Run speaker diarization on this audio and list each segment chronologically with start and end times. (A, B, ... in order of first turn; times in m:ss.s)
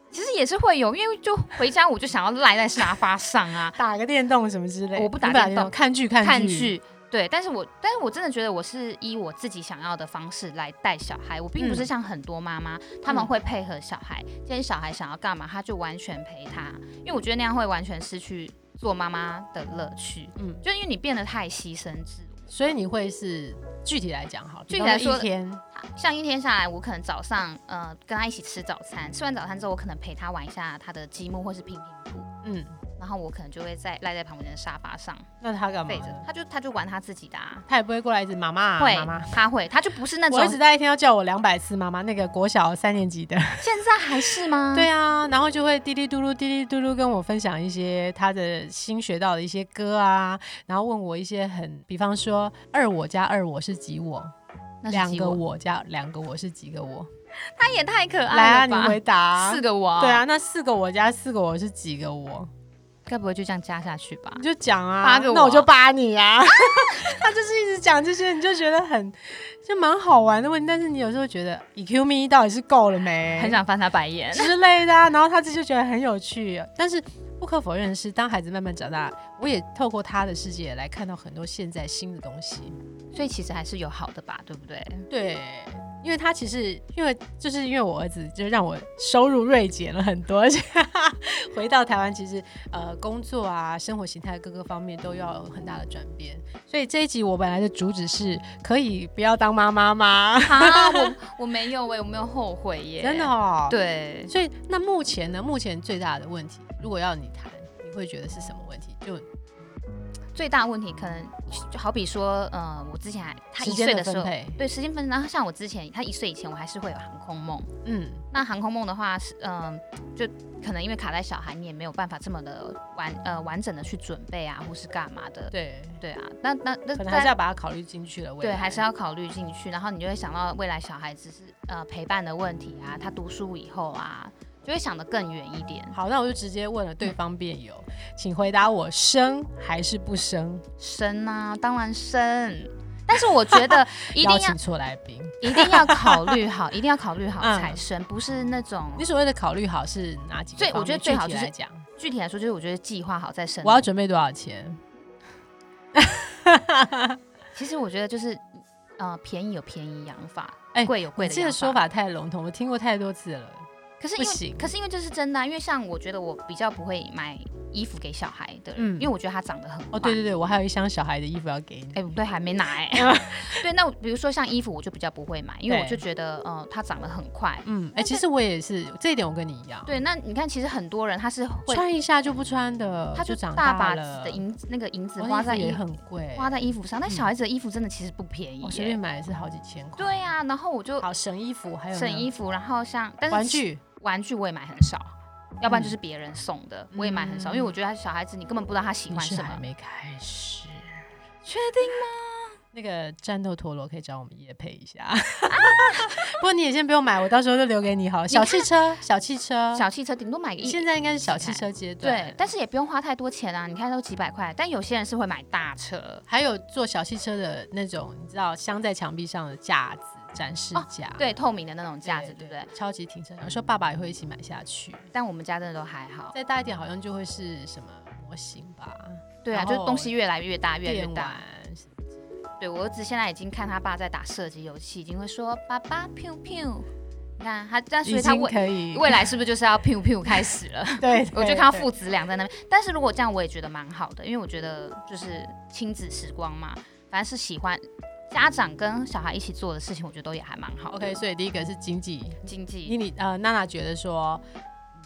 0:00.1-0:03.8 A
0:03.7-0:06.7 B
0:04.9-0:22.5 A
0:11.6-0:11.9 B
0:13.0-0:13.3 B
0:20.4-0:20.6 B
0:22.5-0:25.6 B
0:24.7-0:32.3 A
0:32.4-0:32.8 B
0:33.0-0:35.3 A
0:35.4-0:36.3 B
0:35.9-0:37.7 A
0:37.7-0:39.4 B
0:38.8-0:40.6 A
0:40.3-0:43.7 B
0:43.6-0:44.9 A
0:44.7-0:54.3 B
0:54.8-0:55.4 A
0:54.9-0:57.1 B
0:57.4-1:00.2 A
0:58.3-1:02.5 B
1:03.0-1:04.4 A
1:04.4-1:13.6 B
1:05.0-1:05.7 A
1:06.5-1:07.2 A
1:13.4-1:14.5 A
1:14.3-1:22.8 B
1:23.1-1:25.1 A
1:25.1-1:41.2 B
1:40.4-1:44.3 A
1:43.0-1:43.8 B
1:44.3-1:49.2 B
1:50.3-1:57.7 A
1:53.6-1:54.6 B
1:57.8-1:58.2 B
1:58.3-2:07.3 A
2:05.5-2:06.0 B
2:06.9-2:08.8 B
2:08.4-2:16.0 A
2:15.9-2:20.6 B
2:20.8-2:24.6 A
2:23.5-2:26.3 B
2:25.4-2:29.0 A
2:27.4-2:27.8 B
2:29.0-2:31.8 B
2:30.6-2:33.9 A
2:33.6-2:34.8 B
2:35.9-2:37.2 B
2:37.5-2:41.8 A
2:40.7-2:44.7 B
2:44.0-2:50.2 A
2:48.8-2:49.1 B
2:49.9-2:52.0 B
2:51.9-2:58.2 A
2:52.9-2:53.6 B
2:55.7-2:56.0 B
2:57.6-3:00.0 B
2:59.8-3:01.8 A
3:01.7-3:04.4 B
3:03.1-3:09.0 A
3:05.2-3:07.3 B
3:08.6-3:10.3 B
3:10.0-3:11.1 A
3:11.0-3:12.3 B
3:11.9-3:19.6 A
3:13.3-3:13.8 B
3:15.6-3:16.0 B
3:16.9-3:17.8 B
3:19.1-3:21.0 B
3:21.4-3:22.6 A
3:22.7-3:29.9 B
3:25.5-3:26.2 A
3:28.3-3:28.7 A
3:29.7-3:36.2 A
3:30.6-3:32.4 B
3:36.3-3:41.3 B
3:40.7-3:42.7 A
3:42.0-3:45.1 B
3:45.1-3:46.3 A
3:46.3-3:50.1 B
3:49.4-3:51.4 A
3:50.8-3:52.1 B
3:52.6-4:11.2 A
3:58.0-3:59.3 B
4:01.0-4:01.9 B
4:10.9-4:14.4 B
4:12.4-4:13.0 A